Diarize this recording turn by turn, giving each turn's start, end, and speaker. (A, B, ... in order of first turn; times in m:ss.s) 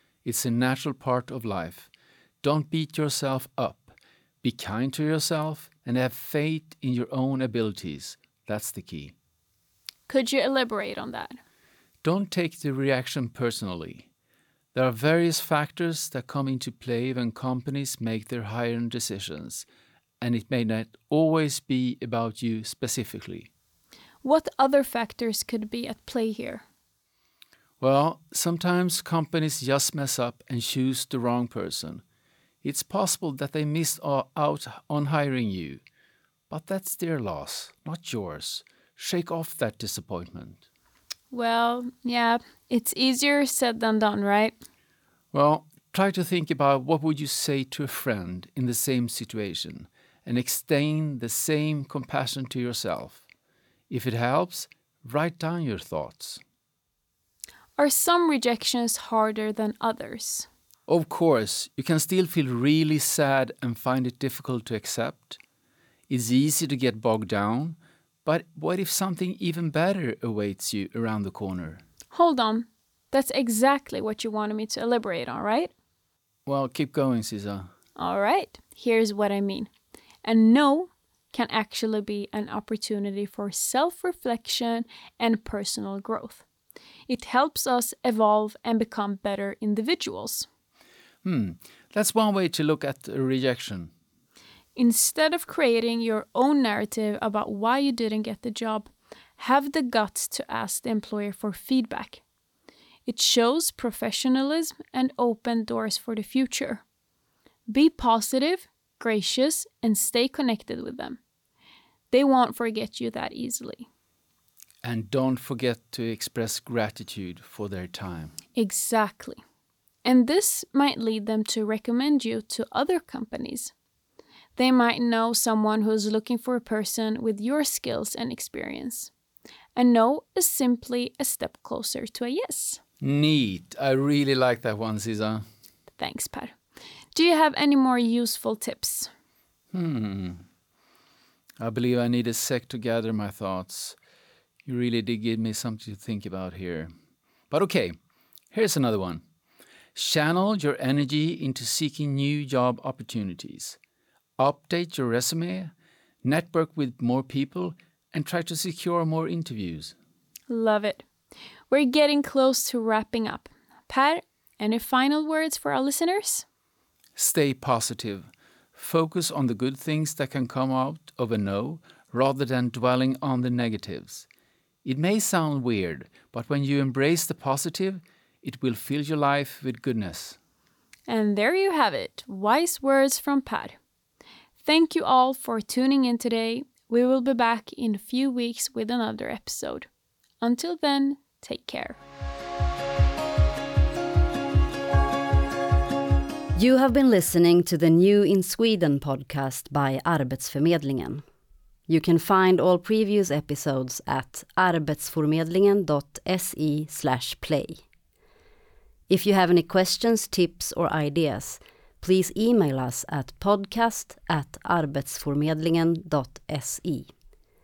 0:00.2-0:01.9 A
0:02.4-0:09.1 A
0:10.1-0:11.4 B
0:12.0-0:14.1 A
0:14.7-0:19.7 A
0:20.2-0:23.5 A
0:24.2-0:26.6 B
0:27.8-0:32.0 A
0:32.6-0:35.8 A
0:36.5-0:40.6 A
0:41.3-0:44.6 B
0:45.3-0:53.2 A
0:53.9-0:56.4 A
0:57.8-1:00.5 B
1:00.9-1:05.4 A
1:06.1-1:11.8 A
1:12.1-1:15.7 B
1:16.5-1:17.7 A
1:18.0-1:19.7 B
1:20.2-1:26.4 B
1:27.1-1:30.5 B
1:31.2-1:33.9 A
1:34.8-1:42.2 B
1:43.1-1:46.8 B
1:47.7-1:51.2 B
1:52.1-1:53.9 B
1:54.8-1:58.4 A
1:58.6-1:59.4 B
2:00.0-2:03.7 B
2:04.6-2:09.1 B
2:09.8-2:12.8 B
2:13.0-2:15.4 A
2:16.0-2:16.5 B
2:17.1-2:19.1 B
2:19.7-2:20.4 A
2:21.6-2:24.0 A
2:24.7-2:26.9 A
2:27.5-2:27.9 A
2:28.5-2:29.2 A
2:30.0-2:33.8 A
2:34.4-2:35.7 A
2:36.2-2:39.9 A
2:40.5-2:41.0 B
2:41.7-2:46.4 B
2:47.2-2:54.3 A
2:54.8-3:00.4 A
3:01.1-3:03.8 B
3:04.6-3:09.9 B
3:10.4-3:12.0 B
3:16.6-3:21.2 C
3:21.9-3:27.8 C
3:29.1-3:37.1 C